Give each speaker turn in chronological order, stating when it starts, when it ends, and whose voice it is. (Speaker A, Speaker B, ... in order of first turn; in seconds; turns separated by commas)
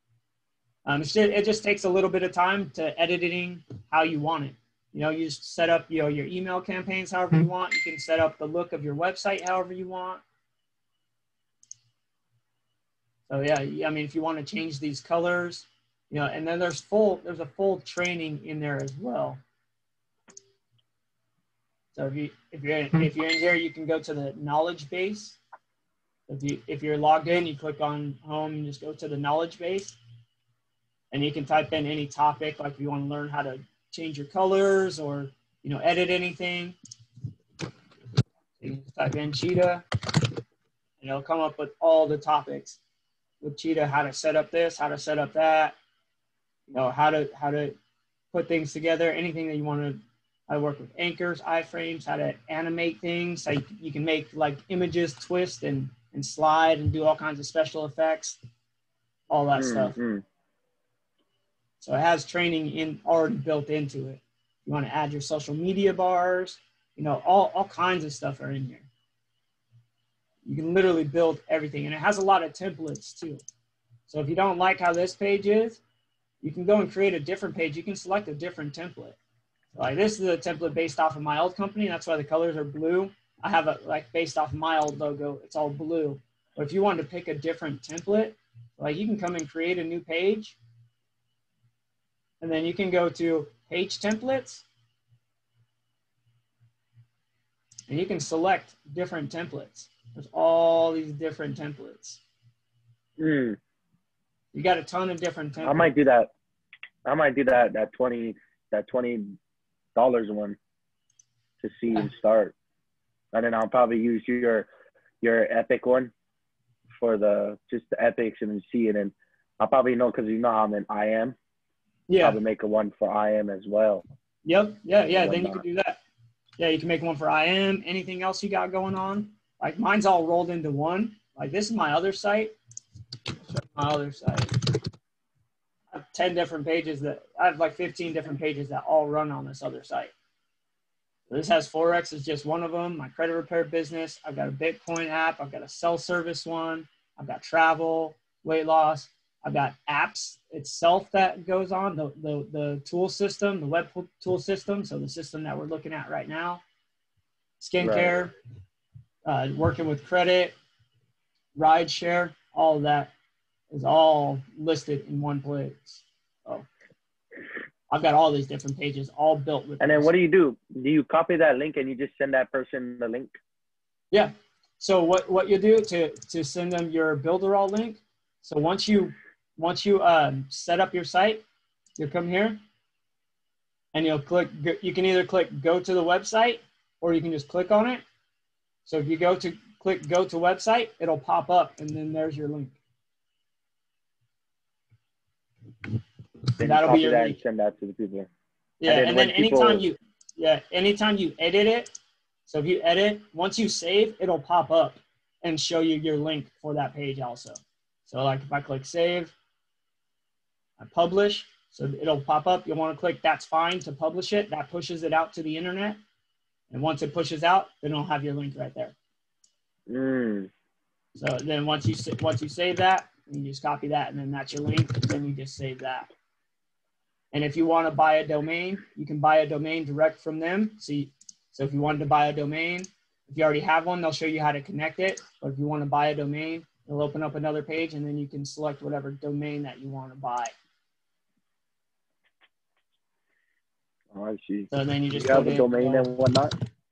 Speaker A: 0.8-10.2, Speaker A: 13.3-19.4, Speaker A: 21.9-25.4, Speaker A: 26.3-30.0, Speaker A: 31.1-36.8, Speaker A: 38.6-39.9, Speaker A: 41.0-42.8, Speaker A: 43.4-45.8, Speaker A: 46.7-47.8, Speaker A: 48.3-58.4, Speaker A: 59.3-60.0, Speaker B: 59.5-60.2, Speaker A: 61.8-68.9, Speaker A: 70.5-73.4, Speaker A: 74.1-75.8, Speaker A: 76.4-79.2, Speaker A: 79.7-90.6, Speaker A: 92.4-94.7, Speaker A: 97.9-102.2, Speaker B: 103.2-103.6, Speaker A: 104.5-105.9, Speaker B: 105.6-106.3, Speaker B: 107.1-109.4, Speaker B: 110.0-110.6, Speaker B: 111.6-112.5, Speaker B: 113.3-114.7, Speaker B: 115.2-116.1, Speaker B: 117.0-121.4, Speaker A: 122.1-122.4, Speaker B: 122.2-124.0, Speaker A: 124.4-126.0, Speaker B: 125.1-125.6, Speaker A: 126.6-132.6, Speaker A: 133.5-134.5, Speaker A: 135.9-140.1, Speaker A: 141.3-156.6, Speaker A: 157.6-158.3, Speaker B: 157.8-158.1, Speaker A: 159.2-160.6, Speaker A: 161.6-163.1, Speaker A: 163.7-166.7, Speaker A: 167.9-170.1, Speaker B: 169.8-173.3, Speaker A: 174.1-181.4, Speaker A: 182.0-182.6, Speaker A: 183.9-188.0, Speaker A: 188.8-192.8, Speaker B: 196.6-198.3, Speaker A: 196.6-197.4, Speaker A: 198.8-201.9, Speaker B: 198.9-199.8, Speaker A: 202.5-209.3, Speaker A: 210.8-216.0, Speaker A: 216.7-218.9, Speaker B: 219.9-220.5, Speaker A: 221.2-226.1, Speaker A: 227.3-240.5, Speaker B: 244.1-246.5, Speaker A: 244.7-246.1